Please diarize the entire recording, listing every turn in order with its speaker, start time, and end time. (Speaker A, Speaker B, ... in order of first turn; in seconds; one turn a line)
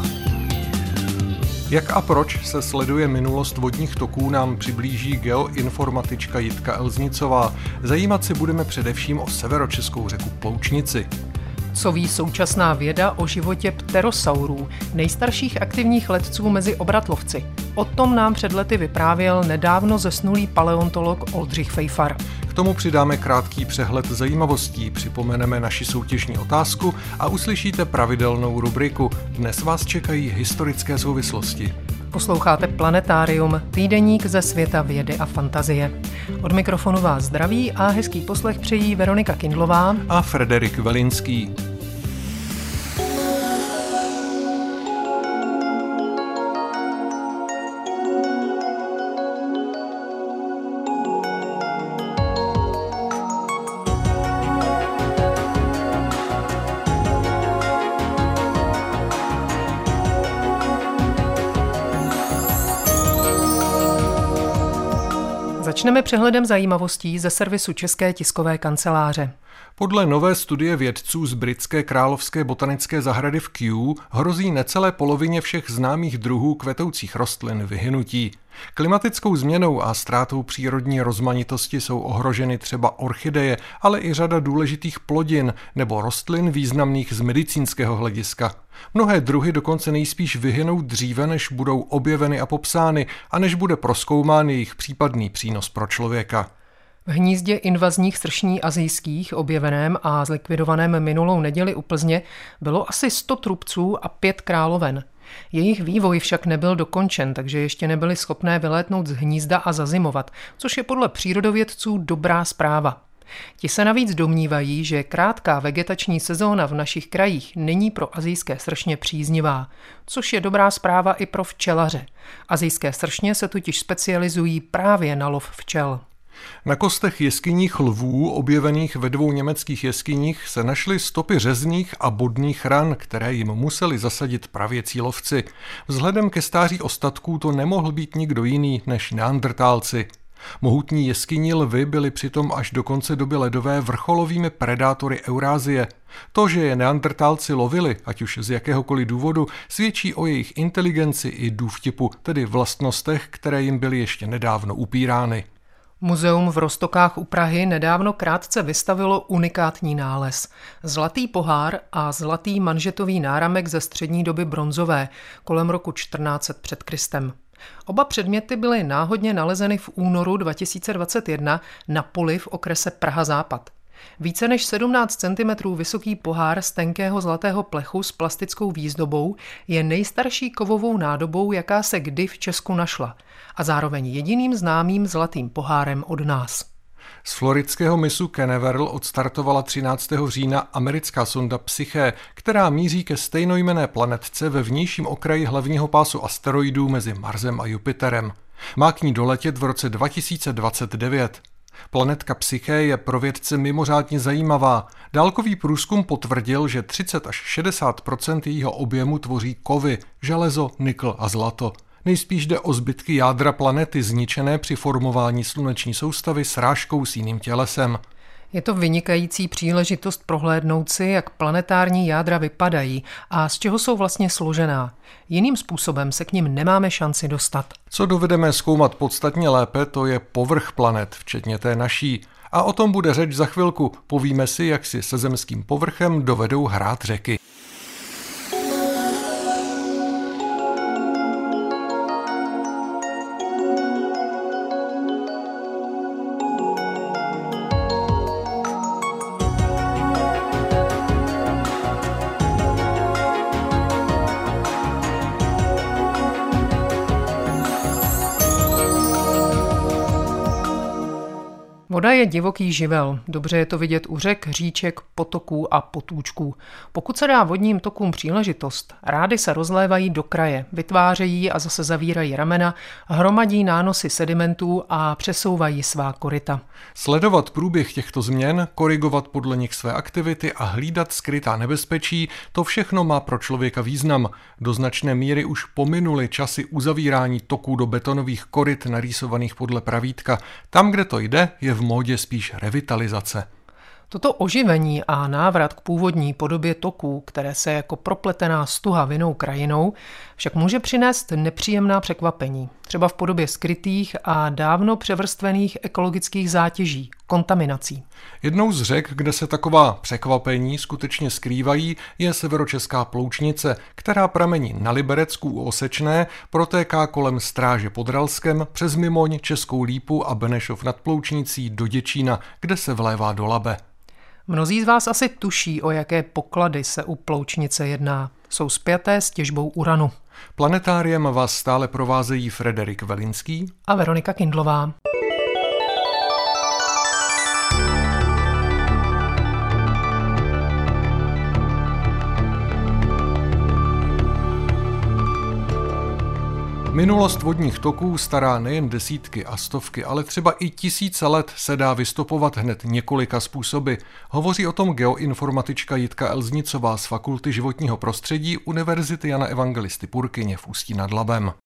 Speaker A: 1.7-11.1
Speaker B: 11.7-22.2
Speaker A: 22.5-31.7
Speaker B: 32.1-40.0
Speaker A: 40.1-41.5
Speaker B: 65.6-69.3
Speaker A: 69.8-96.5
Speaker B: 97.1-113.0
Speaker B: 113.6-126.0
Speaker A: 126.7-140.1
Speaker A: 140.6-155.4
Speaker B: 156.0-186.7
Speaker A: 187.2-218.0
Speaker B: 218.5-227.8
Speaker A: 227.9-237.4
Speaker B: 261.9-276.6
Speaker A: 277.0-293.5
Speaker B: 294.1-308.0
Speaker A: 308.4-323.8
Speaker B: 324.5-330.1
Speaker A: 330.6-333.7
Speaker B: 333.9-334.9
Speaker A: 346.9-361.6